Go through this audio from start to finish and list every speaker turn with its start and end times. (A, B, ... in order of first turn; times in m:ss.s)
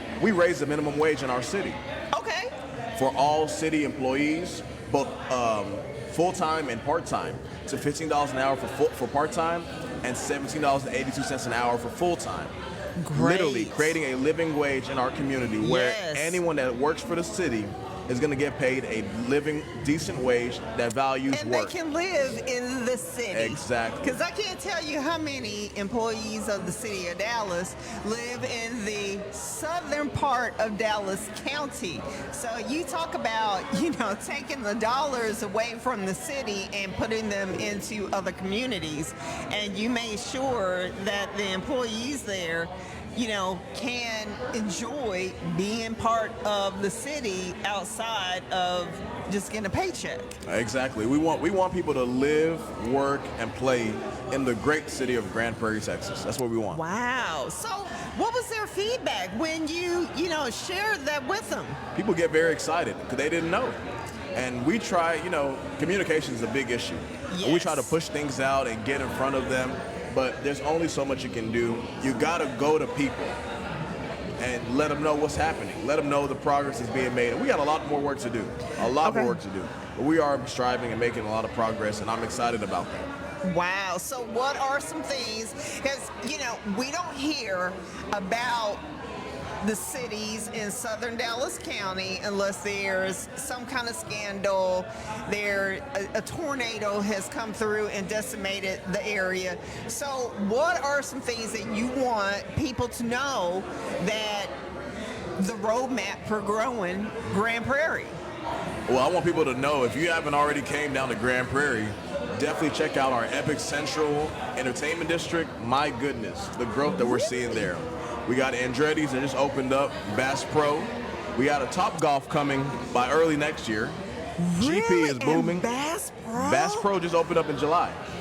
0:00.2-0:01.8 A
0:02.1-0:02.5 B
0:03.0-0:12.6 A
0:13.0-0:14.0 B
0:13.1-0:21.7 A
0:15.6-0:16.4 B
0:21.3-0:50.4 B
0:23.3-0:24.1 A
0:50.4-0:56.8 A
0:56.7-1:01.8 B
1:01.9-1:03.8 A
1:04.3-1:13.4 A
1:07.3-1:08.0 B
1:14.4-1:23.1 A
1:18.8-1:19.4 B
1:23.4-1:28.8 B
1:29.6-1:44.5 B
1:45.4-1:48.2 B
1:48.9-2:04.0 A
1:57.0-1:57.6 B
2:04.4-2:06.9 B
2:04.6-2:05.7 A
2:06.3-2:08.0 A